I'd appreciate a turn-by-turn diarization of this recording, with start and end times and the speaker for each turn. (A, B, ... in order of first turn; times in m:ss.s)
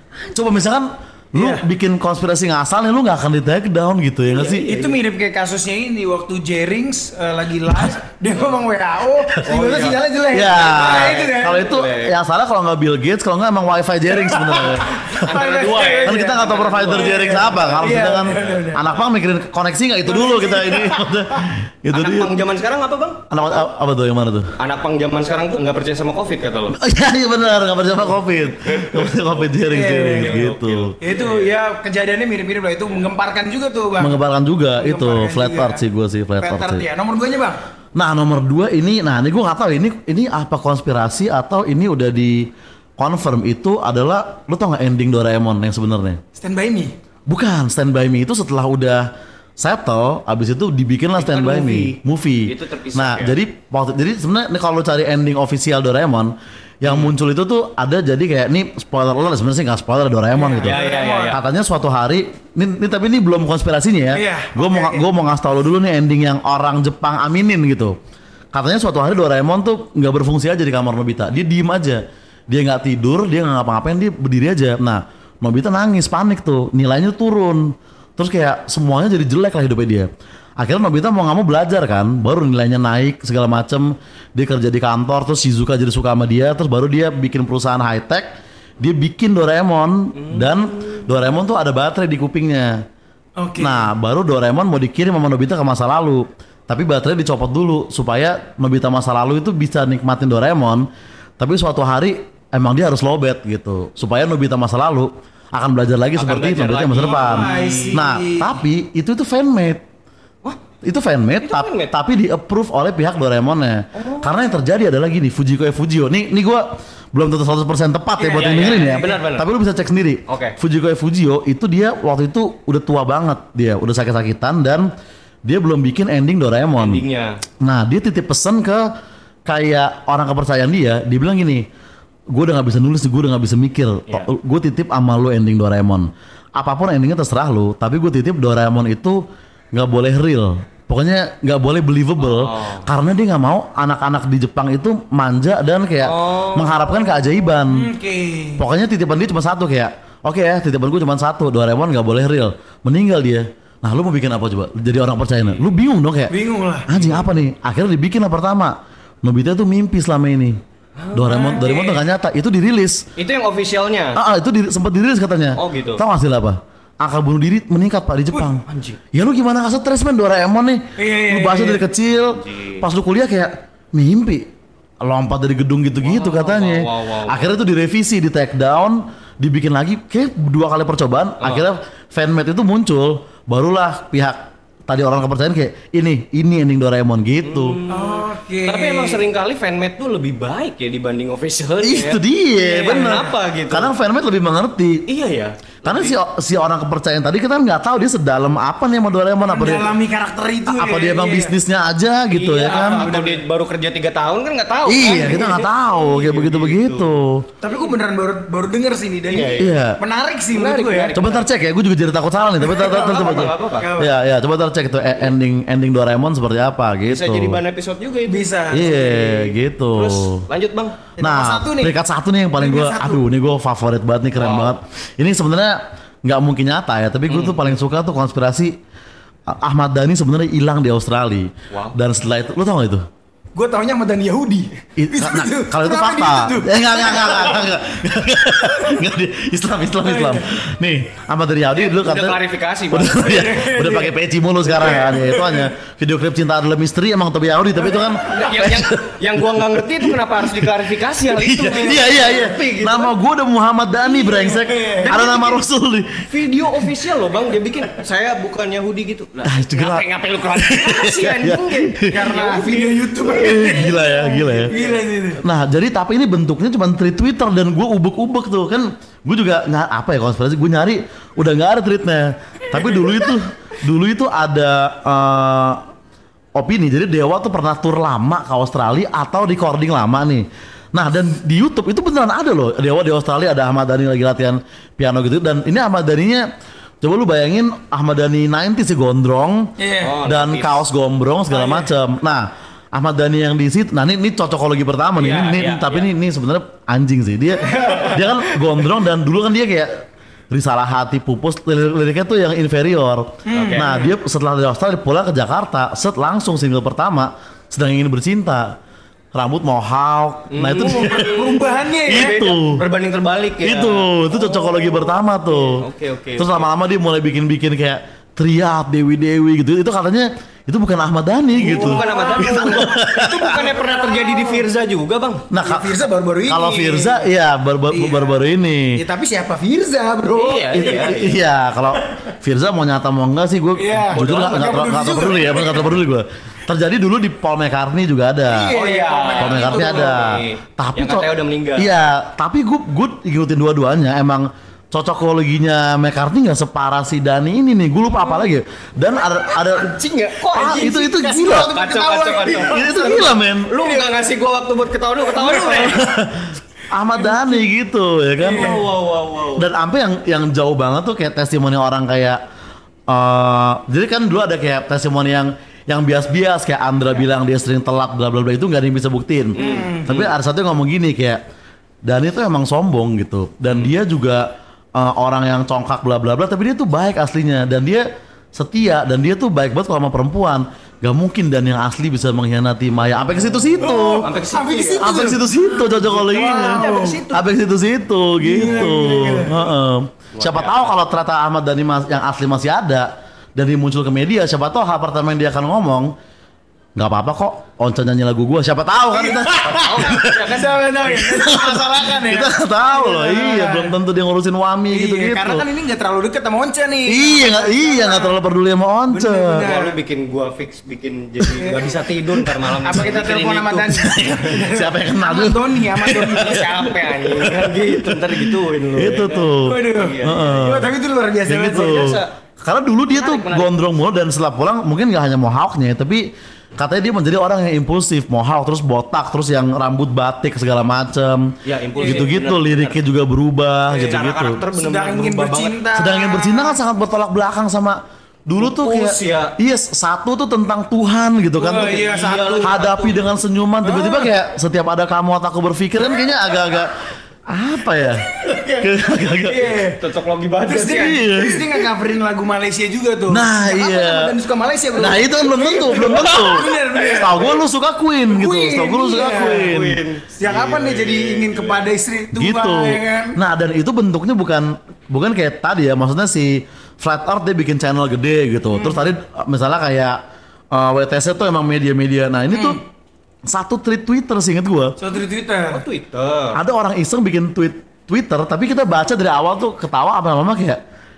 0:00.3-0:04.7 A
0:01.3-0:01.6 B
0:04.3-0:05.0 C
0:04.6-0:11.7 B
0:09.4-0:10.0 C
0:10.3-0:22.4 A
0:10.6-0:12.1 C
0:14.2-0:16.4 B
0:15.1-0:18.7 C
0:17.0-0:18.8 B
0:20.2-0:21.1 B
0:21.9-0:23.7 C
0:23.3-0:24.5 A
0:24.6-0:26.8 C
0:26.7-0:30.9 A
0:28.5-0:31.5 C
0:29.7-0:30.5 B
0:31.0-0:34.2 B
0:34.0-0:36.8 A
0:34.7-0:35.8 B
0:36.4-0:37.6 B
0:38.0-0:42.5 A
0:43.0-0:46.2 A
0:46.4-0:46.9 B
0:47.3-0:49.0 A
0:49.6-1:08.0 A
0:51.2-0:53.4 C
0:56.8-0:57.1 C
1:00.3-1:01.4 B
1:00.6-1:01.4 C
1:04.1-1:05.1 B
1:08.5-1:32.8 A
1:30.2-1:31.2 C
1:33.4-1:33.9 B
1:33.6-1:40.8 A
1:41.4-1:49.8 A
1:46.2-1:48.0 C
1:47.0-1:48.6 B
1:50.8-2:04.9 A
1:51.4-1:51.9 C
1:54.0-1:54.3 C
1:58.2-1:59.1 B
1:58.3-1:59.5 C
2:00.3-2:00.6 C
2:05.4-2:07.0 A
2:06.8-2:07.4 C
2:07.6-2:08.8 A
2:09.5-2:11.6 A
2:12.3-2:19.2 A
2:19.7-2:27.9 A
2:22.2-2:22.9 C
2:26.0-2:26.8 C
2:27.6-2:28.6 B
2:28.6-2:36.3 A
2:36.3-2:36.9 B
2:36.9-2:40.6 A
2:36.9-2:37.3 C
2:41.0-2:42.0 C
2:41.1-2:43.0 A
2:41.3-2:41.7 B
2:43.2-2:44.2 C
2:44.1-2:54.4 A
2:45.6-2:46.0 C
2:48.7-2:49.0 C
2:51.0-2:51.8 B
2:52.2-2:52.8 C
2:55.0-3:07.8 A
2:56.0-2:57.5 C
3:01.4-3:01.7 C
3:07.4-3:13.9 C
3:07.9-3:09.2 B
3:11.8-3:15.0 A
3:15.1-3:16.2 C
3:15.8-3:19.9 A
3:19.5-3:21.6 B
3:20.6-3:23.1 A
3:22.3-3:27.1 C
3:22.7-3:23.4 B
3:24.8-3:27.4 A
3:25.0-3:25.4 B
3:27.6-3:31.1 B
3:29.3-3:29.8 C
3:29.6-3:30.0 A
3:30.5-3:31.5 C
3:31.1-3:37.6 A
3:32.6-3:34.1 B
3:32.8-3:33.9 C
3:37.1-3:41.0 C
3:38.3-3:39.2 B
3:38.7-3:40.4 A
3:41.2-3:42.0 B
3:41.2-3:48.7 A
3:42.6-3:43.2 B
3:44.4-3:44.8 C
3:47.3-3:47.8 C
3:49.5-3:53.0 A
3:51.7-3:52.0 C
3:53.5-3:57.7 B
3:55.0-4:10.7 A
3:58.7-3:59.0 B
4:00.0-4:00.5 B
4:01.7-4:03.5 C
4:03.2-4:04.1 B
4:04.7-4:05.7 B
4:08.3-4:13.1 C
4:11.2-4:16.2 A
4:14.1-4:15.2 B
4:15.1-4:15.4 C
4:16.3-4:25.0 C
4:19.4-4:22.1 A
4:22.0-4:25.4 B
4:23.2-4:24.7 A
4:25.4-4:35.8 A
4:32.8-4:33.3 B
4:36.6-4:46.4 A
4:47.0-4:49.7 A
4:49.8-4:50.1 B
4:50.0-4:50.8 C
4:50.2-5:08.7 A
4:51.5-4:51.9 B
4:55.2-4:56.1 C
4:57.7-4:58.0 B
4:57.8-4:58.1 C
5:03.4-5:04.1 B
5:03.5-5:04.1 C
5:09.3-5:11.4 A
5:10.5-5:16.7 C
5:10.8-5:12.4 B
5:12.1-5:12.8 A
5:13.6-5:15.8 A
5:16.4-5:23.4 A
5:21.6-5:24.6 B
5:21.6-5:25.5 C
5:25.5-5:29.0 A
5:25.6-5:27.2 B
5:27.9-5:28.4 B
5:28.9-5:31.2 B
5:30.3-5:31.4 C
5:30.7-5:38.7 A
5:33.8-5:35.9 B
5:34.1-5:34.8 C
5:38.5-5:40.2 B
5:38.7-5:41.9 C
5:39.4-5:50.0 A
5:49.7-5:53.2 B
5:49.9-5:50.9 C
5:50.5-5:51.7 A
5:51.6-5:56.0 C
5:52.5-5:53.7 A
5:53.8-5:54.1 B
5:55.3-5:55.9 B
5:55.8-5:58.9 A
5:58.4-5:58.8 B
5:58.4-5:59.7 C
5:59.6-6:02.4 A
6:03.1-6:11.4 A
6:09.6-6:10.2 B
6:09.6-6:10.3 C
6:12.0-6:24.3 A
6:23.3-6:27.4 C
6:23.8-6:25.4 B
6:25.0-6:36.1 A
6:26.3-6:27.2 B
6:28.4-6:29.7 B
6:28.6-6:29.4 C
6:30.3-6:30.9 C
6:37.0-6:45.6 A
6:39.1-6:43.9 B
6:39.6-6:40.8 C
6:44.9-6:48.3 B
6:47.1-6:49.7 A
6:49.1-6:49.9 B
6:49.6-6:54.0 C
6:51.6-6:51.9 B
6:52.4-6:53.1 A
6:52.8-6:57.4 B
6:53.9-7:00.9 A
6:56.4-7:00.8 C
6:59.6-7:02.2 B
7:01.4-7:14.6 A
7:01.7-7:02.3 C
7:03.1-7:03.7 C
7:11.6-7:13.0 C
7:12.0-7:12.2 B
7:13.9-7:15.8 C
7:14.7-7:16.8 B
7:15.9-7:29.8 A
7:18.6-7:19.6 C
7:21.6-7:22.7 B
7:21.9-7:23.3 C
7:23.8-7:24.3 B
7:29.4-7:30.0 B
7:30.0-7:31.2 C
7:30.6-7:37.5 B
7:30.9-7:31.8 A
7:33.3-7:34.3 A
7:34.9-7:40.0 A
7:37.0-7:37.5 C
7:38.3-7:39.7 B
7:39.2-7:41.9 C
7:40.4-7:43.4 B
7:42.3-7:50.2 A
7:48.7-7:49.1 B
7:50.7-7:52.8 A
7:52.5-7:52.8 B
7:53.5-7:54.9 A
7:55.0-7:55.8 B
7:55.7-7:56.6 C
7:56.5-8:00.8 A